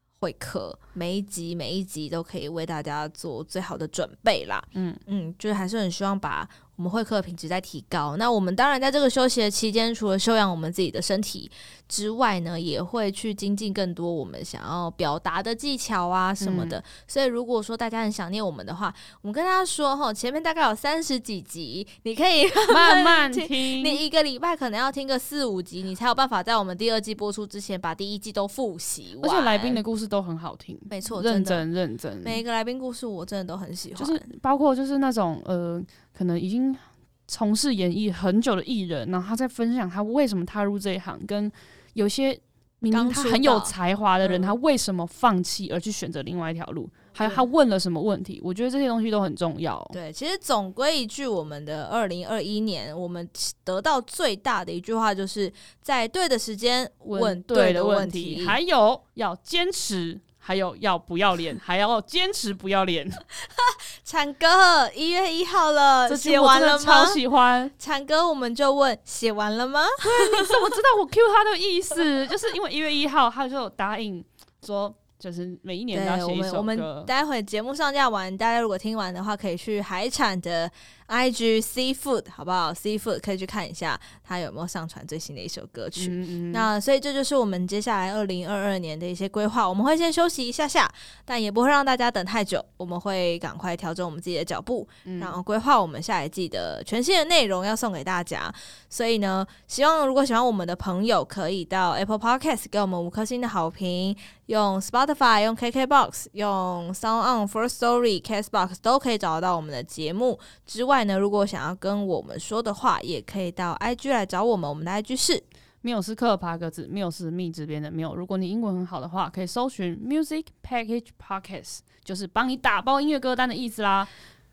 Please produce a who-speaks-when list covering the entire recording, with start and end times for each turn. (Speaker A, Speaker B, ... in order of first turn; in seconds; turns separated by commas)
Speaker A: 0.2-29.8, Speaker B: 4.7-5.0, Speaker B: 16.4-16.8, Speaker B: 22.7-24.0, Speaker B: 29.2-32.4, Speaker A: 30.9-31.6, Speaker A: 32.2-34.2, Speaker B: 34.0-50.0, Speaker A: 42.9-44.5, Speaker A: 49.9-58.6, Speaker B: 57.0-63.2, Speaker A: 63.5-67.2, Speaker B: 66.1-67.7, Speaker A: 67.8-70.7, Speaker B: 70.0-77.1, Speaker A: 75.9-115.4, Speaker B: 86.0-86.7, Speaker B: 95.0-95.3, Speaker B: 115.8-124.1